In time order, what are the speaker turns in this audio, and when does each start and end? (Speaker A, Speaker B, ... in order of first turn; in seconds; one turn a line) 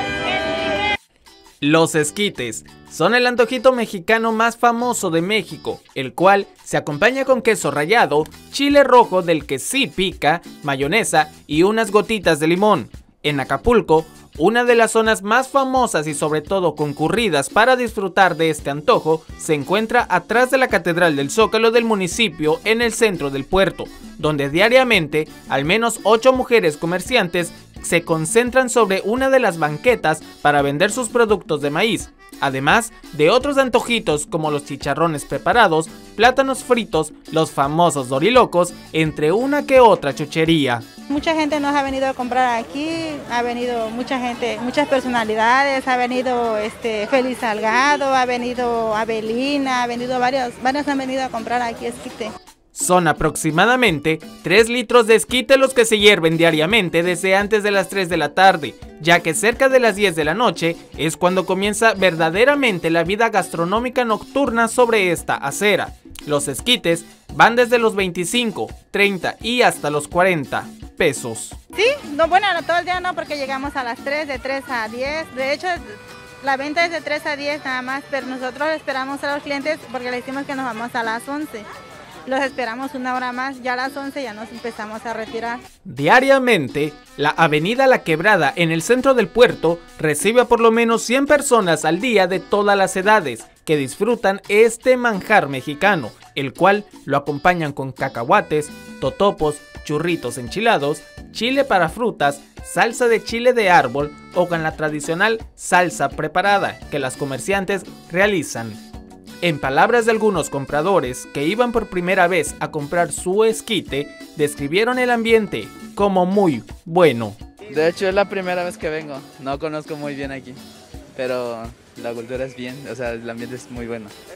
Speaker A: 0.4-0.7
Speaker B: 1.6-40.9
Speaker A: 41.1-52.3
Speaker B: 52.7-71.5
Speaker A: 71.7-81.7
Speaker A: 82.2-85.6
Speaker B: 85.8-108.8
Speaker B: 109.4-117.4
Speaker C: 117.7-120.6
Speaker C: 121.1-124.1